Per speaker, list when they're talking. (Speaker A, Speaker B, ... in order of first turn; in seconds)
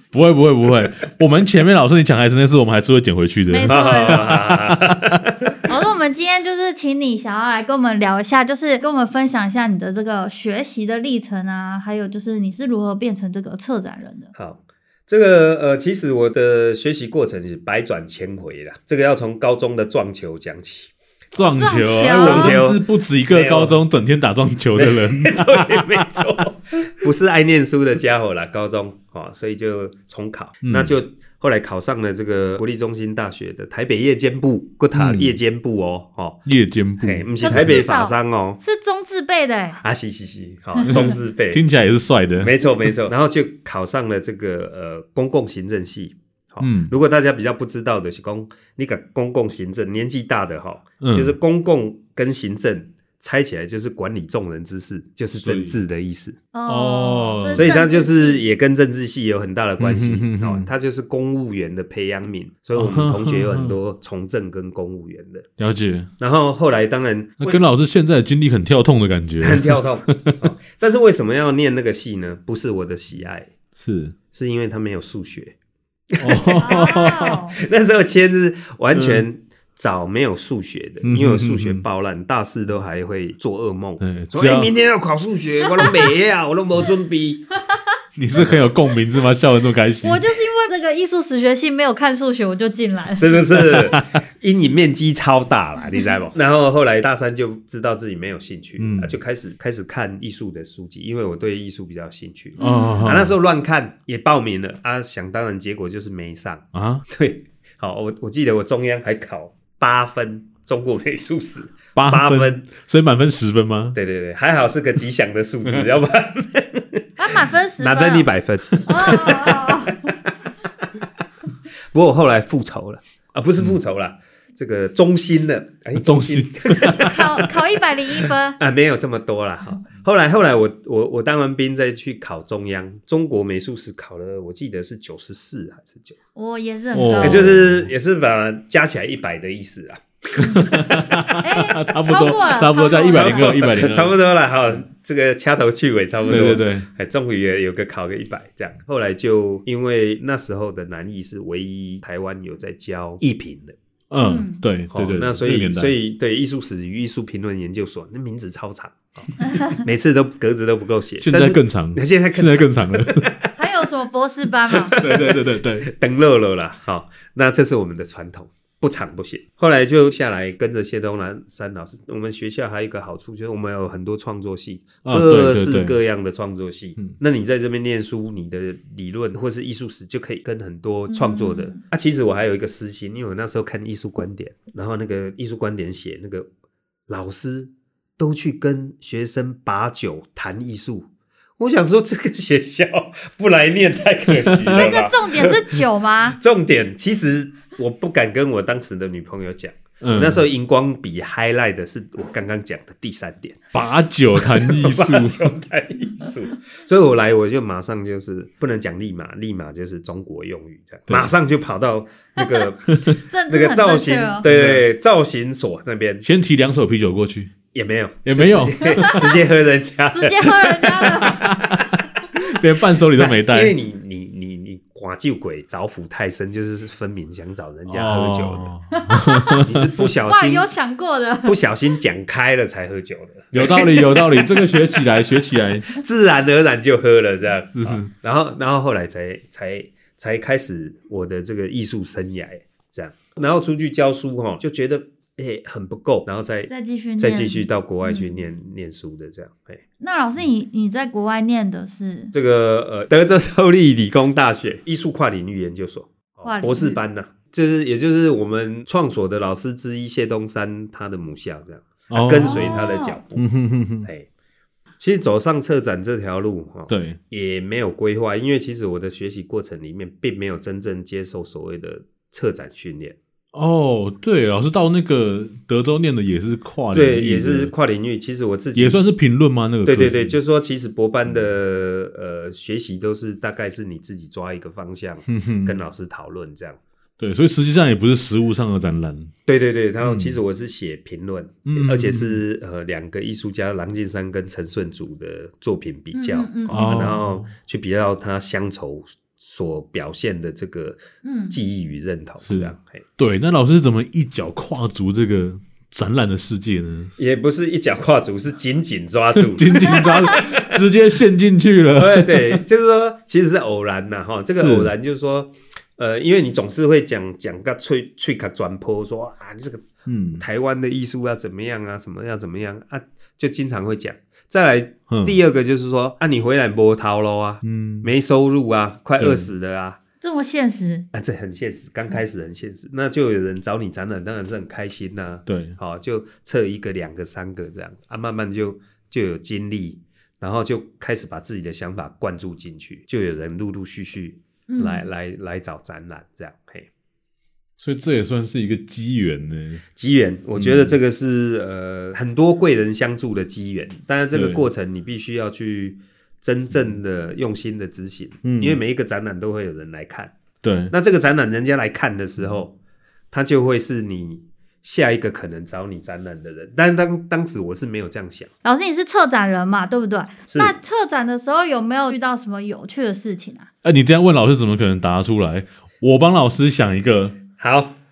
Speaker A: 0.1-5.3, 21.3-26.3, 30.6-30.9, 34.9-35.4, 36.5-37.8, 40.8-42.5, 46.6-46.9, 51.0-51.4, 55.4-55.8, 56.7-57.7, 59.8-60.7, 62.8-63.8, 65.6-66.1, 67.4-70.4, 73.8-74.2, 76.2-77.5, 78.9-79.2, 81.0-81.8, 84.0-84.7, 88.2-90.2, 93.9-94.2, 98.8-99.2, 102.6-103.3, 106.7-107.0, 112.0-114.0, 118.9-119.3, 126.0-127.5, 136.9-137.9, 140.4-144.2, 146.3-146.9, 154.1-155.9, 161.2-163.3, 165.0-165.9, 175.0-176.0, 194.4-195.0, 200.0-200.4, 203.7-205.5, 212.9-213.2, 214.4-214.8, 216.2-217.5, 218.2-219.3, 221.2-223.8, 227.9-229.9, 233.5-236.0, 237.7-238.1, 262.1-264.1, 266.9-267.2, 273.5-277.7, 278.8-280.4, 285.3-285.8, 287.2-289.3, 290.0-290.4, 291.7-292.4, 296.7-297.5, 302.5-307.1, 309.4-312.6, 314.6-314.9, 320.1-320.4, 325.1-325.4, 327.6-328.1, 329.2-329.5, 335.5-335.8, 347.8-349.8, 350.6-351.0, 354.3-354.6, 358.4-358.8, 360.6-360.9, 373.8-377.4
Speaker B: 3.5-4.5, 5.7-14.3, 21.5-22.6, 37.4-39.8, 56.5-58.4, 76.6-77.6, 90.0-93.8, 102.6-103.1, 117.2-118.3, 118.8-120.1, 127.0-128.6, 136.4-137.5, 141.4-143.7, 154.2-154.6, 163.6-164.9, 181.1-181.8, 194.7-196.4, 213.2-214.4, 219.0-219.4, 220.1-221.4, 228.9-231.6, 233.6-235.0, 246.7-248.3, 250.0-252.3, 256.4-257.0, 262.4-263.2, 296.1-297.1, 301.2-301.6, 309.8-310.5, 330.2-331.1, 344.7-345.1, 368.6-373.7
Speaker C: 3.7-5.6, 14.3-20.9, 22.1-23.8, 24.8-36.4, 37.0-38.6, 39.8-41.6, 42.4-56.4, 57.5-65.5, 66.2-67.6, 69.4-73.5, 74.3-75.5, 76.1-87.5, 88.4-88.7, 93.1-112.7, 114.0-120.3, 121.9-127.5, 128.6-136.2, 137.2-141.4, 143.1-153.8, 154.9-163.5, 164.7-186.5, 187.1-191.1, 191.6-195.6, 196.3-203.6, 204.3-212.8, 213.5-216.3, 217.7-222.4, 223.1-228.7, 229.6-230.7, 231.4-234.2, 235.9-249.8, 252.3-263.4, 265.0-273.2, 276.9-279.2, 279.9-286.8, 289.5-303.0, 307.2-310.7, 312.0-330.0, 331.1-346.9, 350.0-360.3, 360.9-362.8, 363.3-368.5, 370.5-370.7, 377.6-378.0